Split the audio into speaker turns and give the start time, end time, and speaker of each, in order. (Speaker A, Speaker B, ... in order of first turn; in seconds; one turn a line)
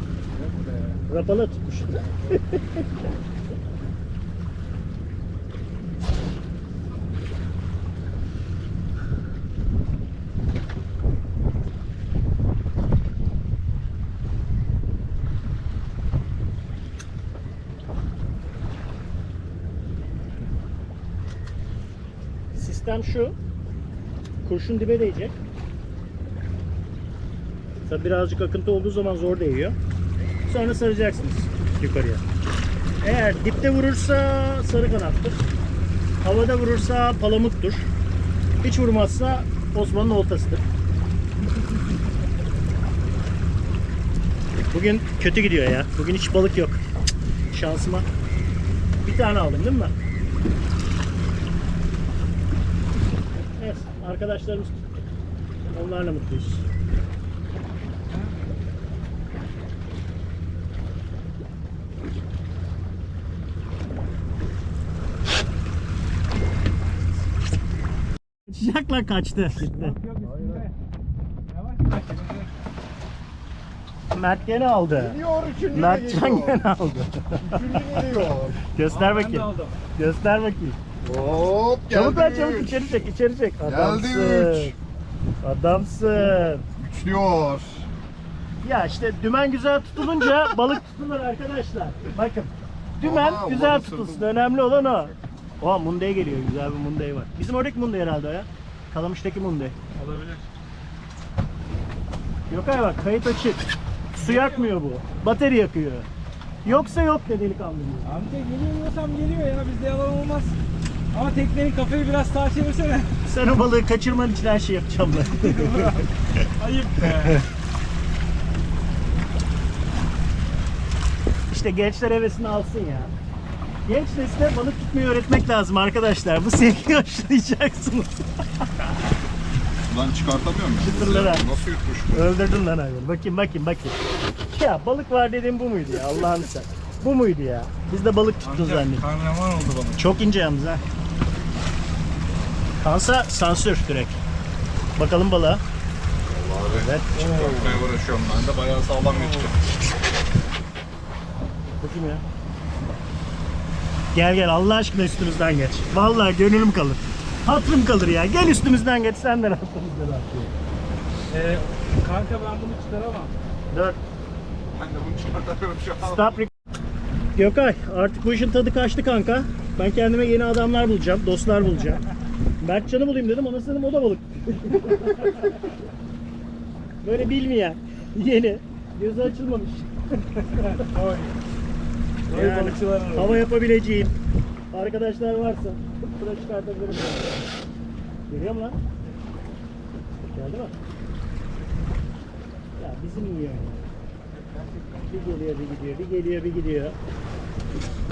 Speaker A: 0.3-1.0
Speaker B: 1.1-2.9
Speaker B: 22.5-23.4
Speaker B: 24.4-25.4
Speaker B: 27.9-29.8
Speaker B: 30.4-32.2
Speaker B: 33.0-35.4
Speaker B: 36.2-37.9
Speaker B: 38.6-40.6
Speaker B: 44.7-46.8
Speaker B: 47.5-48.1
Speaker B: 49.0-49.9
Speaker B: 53.5-54.8
Speaker B: 55.7-56.6
Speaker B: 68.5-70.0
Speaker A: 69.6-70.7
Speaker C: 70.2-70.7
Speaker A: 71.5-72.5
Speaker B: 74.1-75.2
Speaker C: 74.9-76.6
Speaker B: 75.7-78.0
Speaker C: 77.4-78.6
Speaker B: 78.7-80.8
Speaker A: 78.9-79.8
Speaker C: 81.0-82.8
Speaker B: 81.9-84.8
Speaker C: 83.6-84.7
Speaker B: 85.4-86.7
Speaker C: 86.8-87.9
Speaker B: 88.6-99.8
Speaker C: 93.0-95.1
Speaker A: 100.0-100.5
Speaker B: 102.5-103.6
Speaker B: 104.1-106.1
Speaker A: 104.2-104.8
Speaker B: 106.7-108.1
Speaker A: 108.0-110.6
Speaker A: 111.1-113.1
Speaker B: 113.2-116.0
Speaker A: 115.1-117.4
Speaker B: 121.5-123.1
Speaker B: 123.9-128.7
Speaker C: 129.9-132.3
Speaker B: 130.8-131.5
Speaker B: 132.1-134.0
Speaker B: 134.5-139.1
Speaker A: 138.4-140.0
Speaker B: 140.0-140.8
Speaker B: 142.8-144.2
Speaker B: 145.0-145.6
Speaker C: 146.3-149.5
Speaker B: 146.7-147.4
Speaker A: 147.2-147.8
Speaker A: 149.1-149.5
Speaker B: 151.8-152.2
Speaker B: 154.1-160.5
Speaker A: 161.3-163.3
Speaker B: 163.7-164.0
Speaker C: 164.7-166.4
Speaker B: 166.0-166.5
Speaker B: 167.3-172.1
Speaker B: 172.6-175.6
Speaker B: 177.0-180.2
Speaker A: 180.5-181.3
Speaker A: 182.3-183.5
Speaker B: 182.3-184.2
Speaker B: 184.7-187.5
Speaker B: 188.3-188.8
Speaker B: 190.3-190.7
Speaker B: 192.8-193.8
Speaker A: 194.4-195.4
Speaker B: 195.1-197.0